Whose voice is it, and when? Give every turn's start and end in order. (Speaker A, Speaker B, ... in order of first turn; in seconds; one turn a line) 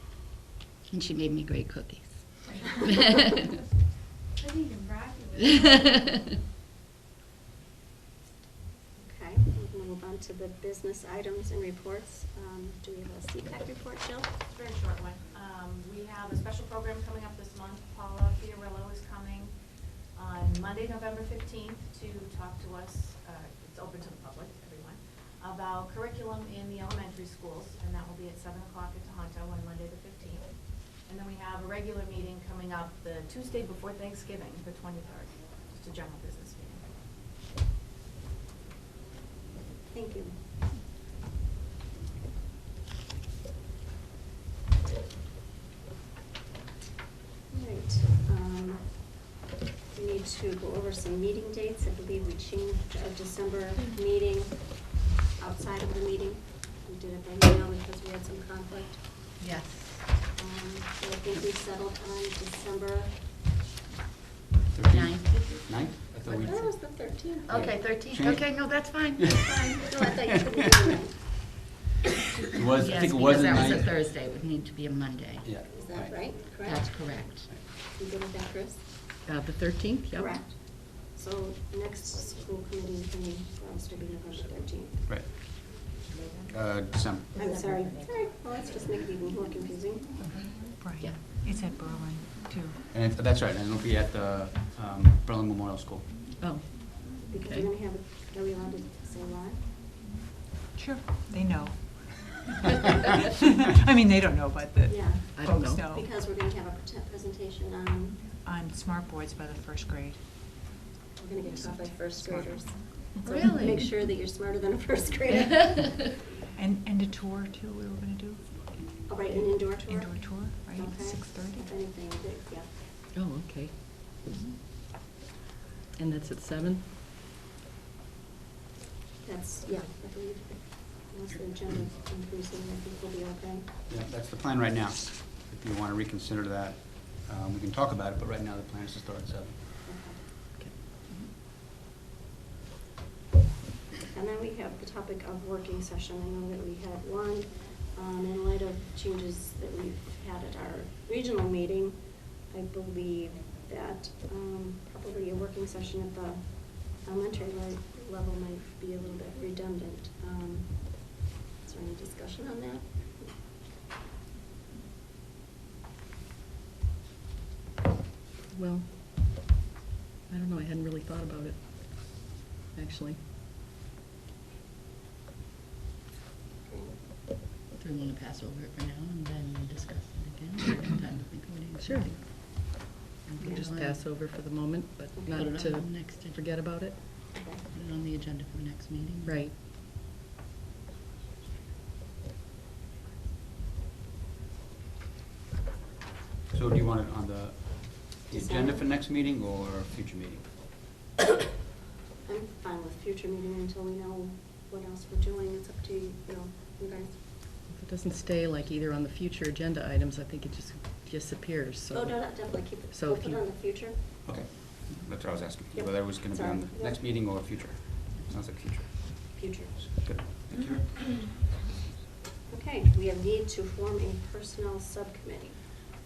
Speaker A: 0.9-2.8
Speaker B: 2.4-3.5
Speaker B: 4.3-6.3
Speaker C: 8.9-14.3
Speaker D: 14.4-36.9
Speaker C: 39.9-40.4
Speaker C: 47.5-49.3
Speaker C: 49.9-59.3
Speaker A: 59.4-59.8
Speaker C: 60.3-63.3
Speaker E: 64.7-66.8
Speaker A: 64.9-65.6
Speaker C: 66.2-67.5
Speaker A: 67.5-69.9
Speaker E: 67.5-70.8
Speaker C: 69.8-71.4
Speaker E: 72.5-73.9
Speaker A: 72.8-75.5
Speaker E: 75.4-76.4
Speaker C: 75.7-78.9
Speaker A: 76.6-77.5
Speaker E: 77.3-77.8
Speaker F: 79.2-80.4
Speaker C: 80.1-85.0
Speaker E: 85.0-85.9
Speaker E: 86.5-87.5
Speaker C: 87.3-90.2
Speaker G: 90.8-92.8
Speaker E: 92.9-96.2
Speaker F: 96.3-96.9
Speaker C: 97.2-99.7
Speaker G: 100.8-102.5
Speaker G: 103.3-106.1
Speaker C: 104.8-108.3
Speaker F: 105.4-105.8
Speaker G: 108.4-110.2
Speaker C: 111.2-116.1
Speaker G: 111.5-113.7
Speaker A: 113.2-113.8
Speaker G: 116.5-121.7
Speaker C: 119.0-122.7
Speaker F: 123.1-123.7
Speaker F: 126.0-126.8
Speaker C: 129.2-133.8
Speaker E: 133.9-139.7
Speaker C: 139.8-140.2
Speaker F: 140.6-141.3
Speaker C: 144.1-163.3
Speaker F: 168.5-168.9
Speaker F: 170.3-173.2
Speaker C: 176.6-176.9
Speaker A: 177.8-184.1
Speaker F: 181.8-182.1
Speaker C: 183.4-183.7
Speaker F: 183.4-187.1
Speaker C: 185.2-185.4
Speaker A: 185.3-186.4
Speaker C: 187.3-187.6
Speaker A: 187.7-189.4
Speaker F: 189.2-189.5
Speaker E: 196.5-200.5
Speaker C: 198.3-198.8
Speaker C: 202.2-207.2
Speaker F: 207.7-213.4
Speaker C: 211.9-214.2
Speaker E: 214.2-221.0
Speaker C: 215.7-217.0
Speaker C: 219.3-219.8
Speaker C: 222.5-225.6